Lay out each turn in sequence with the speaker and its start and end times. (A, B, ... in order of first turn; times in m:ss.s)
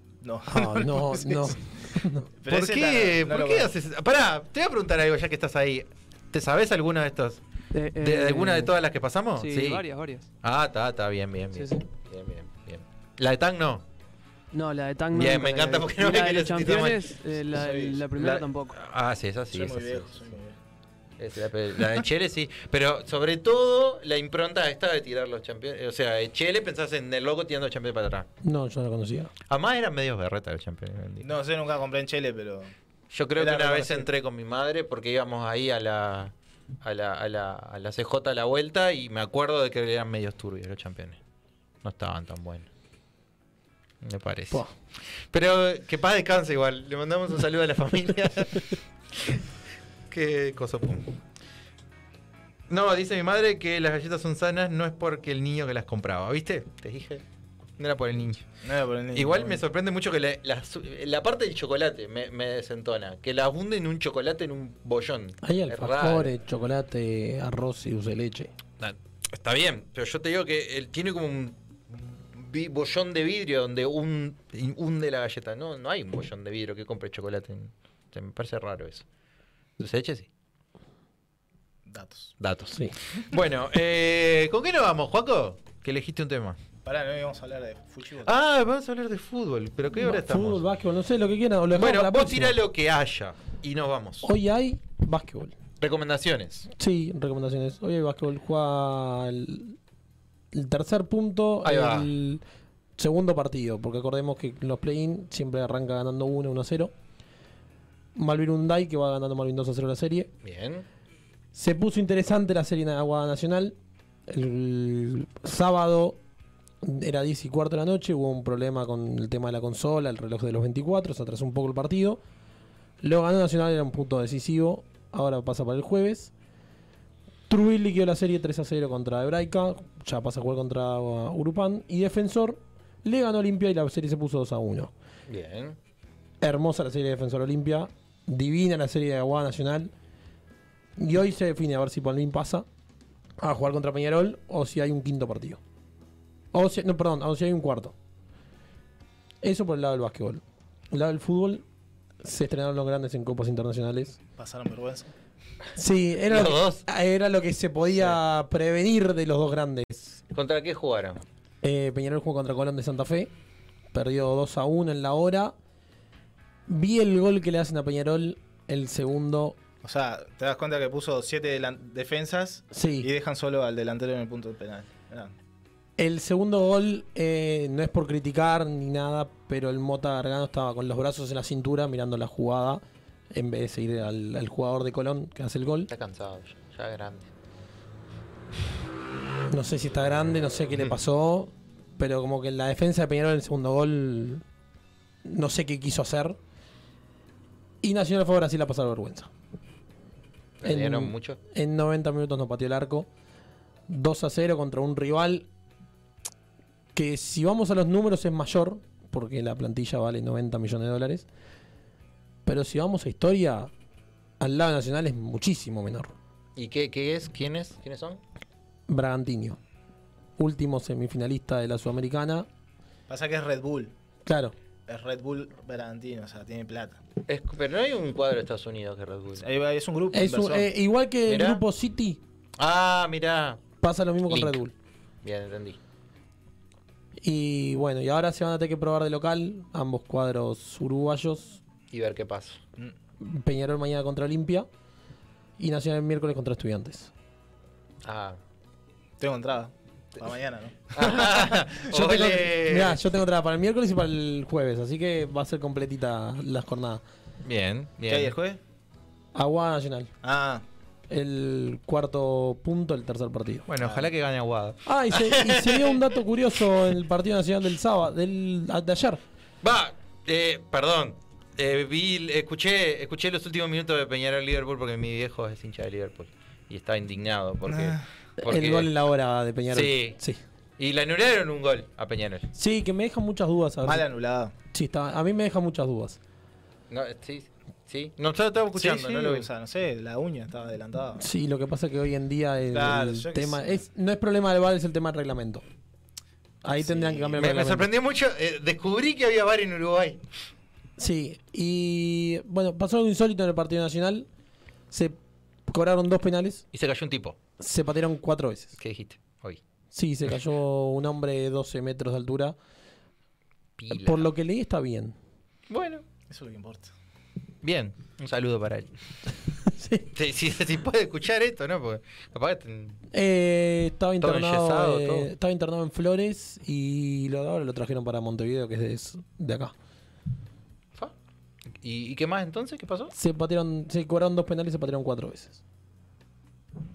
0:00.2-0:01.6 A
0:00.5-0:02.3 B
0:02.4-0:03.7 A
0:02.5-0:07.4 C
0:07.7-0:08.7 D
0:08.0-0:09.8 C
0:09.4-0:10.3 D
0:10.4-0:13.8 C
0:11.5-0:11.8 D
0:14.5-0:18.8 D
0:15.1-0:17.0 C
0:17.5-0:18.4 A
0:18.7-0:20.3 C
0:19.5-0:20.5 A
0:21.2-0:28.3 C
0:28.4-0:29.3 B
0:29.5-0:31.3 C
0:31.2-0:32.7 A
0:33.1-0:41.2 C
0:33.4-0:34.1 A
0:41.8-0:42.7 C
0:44.0-0:44.6 C
0:45.3-0:48.6 C
0:49.1-0:49.4 C
0:50.1-0:51.1 C
0:52.7-0:57.2 C
0:57.8-0:58.4 C
0:58.6-0:59.6 A
0:59.1-1:06.3 C
1:05.4-1:08.5 B
1:08.8-1:19.0 C
1:19.8-1:20.3 C
1:21.8-1:22.3 A
1:22.4-1:26.6 C
1:26.8-1:28.3 A
1:28.2-1:30.6 C
1:29.9-1:32.5 B
1:31.7-1:34.3 C
1:34.2-1:35.5 B
1:35.8-1:36.7 C
1:36.8-1:39.8 B
1:40.5-1:42.4 B
1:41.6-1:42.1 C
1:43.0-1:46.9 B
1:48.2-1:50.3 B
1:50.4-1:50.8 C
1:51.5-1:53.7 B
1:54.3-1:56.2 B
1:56.8-2:02.2 B
2:03.0-2:06.3 B
2:07.5-2:14.9 B
2:15.3-2:15.8 C
2:16.4-2:19.9 B
2:21.0-2:22.6 B
2:23.4-2:25.6 B
2:26.5-2:27.9 B
2:29.4-2:31.6 B
2:32.2-2:34.2 B
2:34.4-2:35.1 A
2:35.8-2:40.1 B
2:36.3-2:36.8 C
2:40.3-2:41.2 C
2:41.6-2:43.3 B
2:43.9-2:45.5 B
2:46.7-2:49.6 B
2:49.8-2:55.3 A
2:52.7-2:53.1 B
2:56.0-3:05.9 B
3:05.9-3:07.3 C
3:09.5-3:14.4 B
3:15.2-3:16.4 B
3:17.8-3:19.3 B
3:20.6-3:21.4 C
3:20.6-3:23.1 B
3:23.9-3:25.5 B
3:26.9-3:31.3 B
3:32.4-3:33.7 B
3:34.4-3:36.1 B
3:36.6-3:38.2 C
3:38.9-3:39.6 B
3:40.4-3:42.5 B
3:43.1-3:43.9 A
3:44.2-3:44.5 B
3:44.9-3:47.0 A
3:47.3-3:49.5 C
3:49.4-3:50.7 A
3:50.1-3:52.2 B
3:51.3-3:51.6 C
3:52.6-3:53.6 C
3:53.8-3:54.7 B
3:54.3-3:54.6 C
3:55.2-3:55.8 C
3:57.2-4:01.6 B
4:01.9-4:02.6 C
4:03.2-4:04.7 B
4:05.6-4:07.1 B
4:08.0-4:08.4 C
4:09.2-4:11.5 A
4:10.9-4:13.0 C
4:11.9-4:17.0 B
4:17.4-4:18.3 C
4:18.1-4:18.6 A
4:19.3-4:20.1 B
4:20.2-4:20.6 A
4:21.1-4:23.6 B
4:23.7-4:26.0 C
4:23.8-4:24.1 A
4:24.8-4:29.2 B
4:29.6-4:38.9 C
4:37.6-4:38.0 A
4:38.4-4:40.4 B
4:39.7-4:40.2 C
4:40.8-4:42.5 C
4:42.5-4:44.0 B
4:43.8-4:44.5 A
4:44.7-4:46.2 B
4:46.9-4:49.5 C
4:48.7-4:51.2 A
4:51.2-4:55.6 B
4:52.7-4:53.8 A
4:56.6-4:57.9 B
4:56.8-4:57.5 A
4:57.4-5:00.2 C
5:01.0-5:04.3 B
5:04.9-5:05.2 B
5:05.7-5:06.6 B
5:06.7-5:07.4 C
5:07.6-5:08.8 B
5:08.8-5:09.6 C
5:09.9-5:12.5 B
5:13.8-5:14.3 C
5:13.9-5:15.1 B
5:15.7-5:16.0 C
5:16.3-5:16.9 A
5:17.6-5:18.9 C
5:19.8-5:20.0 B
5:20.1-5:23.0 C
5:23.1-5:29.7 B
5:24.2-5:25.3 C
5:31.8-5:33.1 C
5:33.1-5:35.6 B